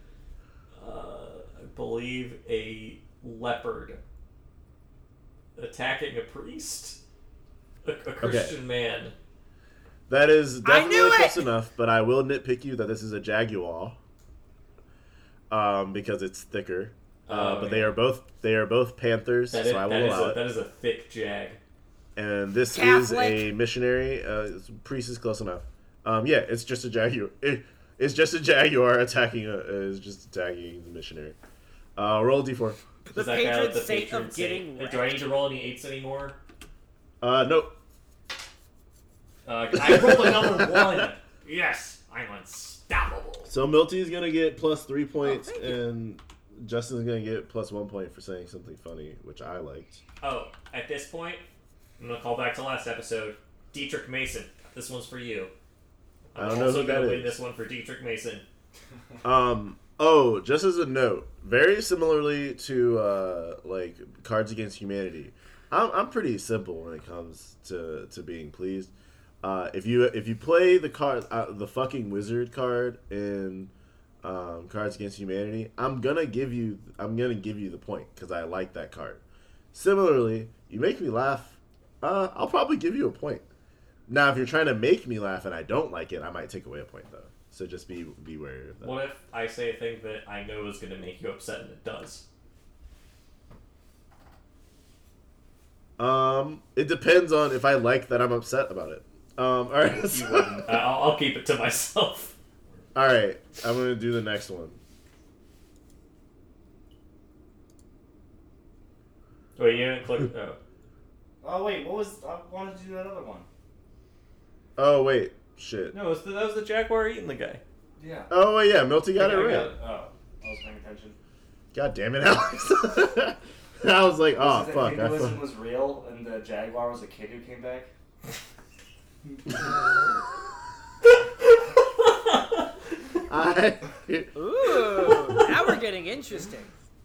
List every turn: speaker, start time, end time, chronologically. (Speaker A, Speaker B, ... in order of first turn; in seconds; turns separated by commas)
Speaker A: 0.8-4.0, Speaker A: 5.5-7.0, Speaker A: 7.8-9.1, Speaker B: 8.2-8.5, Speaker B: 10.1-14.0, Speaker C: 10.6-11.5, Speaker B: 15.5-20.4, Speaker A: 17.3-18.0, Speaker A: 19.5-21.6, Speaker B: 22.1-31.4, Speaker C: 22.7-23.5, Speaker B: 31.9-32.8, Speaker C: 33.1-35.2, Speaker A: 33.1-36.4, Speaker B: 37.2-37.7, Speaker A: 39.5-43.5, Speaker B: 39.8-41.0, Speaker B: 43.4-50.0, Speaker C: 45.2-45.8, Speaker A: 50.2-51.4, Speaker A: 52.0-55.5, Speaker A: 56.3-58.4, Speaker B: 56.3-57.4, Speaker B: 59.2-73.7, Speaker B: 74.2-79.2, Speaker B: 79.7-83.4, Speaker B: 84.1-89.0, Speaker A: 88.8-92.2, Speaker B: 96.0-100.7, Speaker A: 100.0-102.3, Speaker B: 102.9-104.8, Speaker A: 109.5-110.6, Speaker D: 111.4-113.5, Speaker B: 114.8-116.0, Speaker A: 115.9-117.6, Speaker D: 118.0-118.3, Speaker B: 118.3-119.7, Speaker A: 119.2-119.7, Speaker D: 119.2-121.2, Speaker B: 121.7-125.4, Speaker D: 124.3-127.9, Speaker A: 132.0-132.4, Speaker B: 133.3-134.3, Speaker C: 134.3-136.7, Speaker A: 135.1-135.5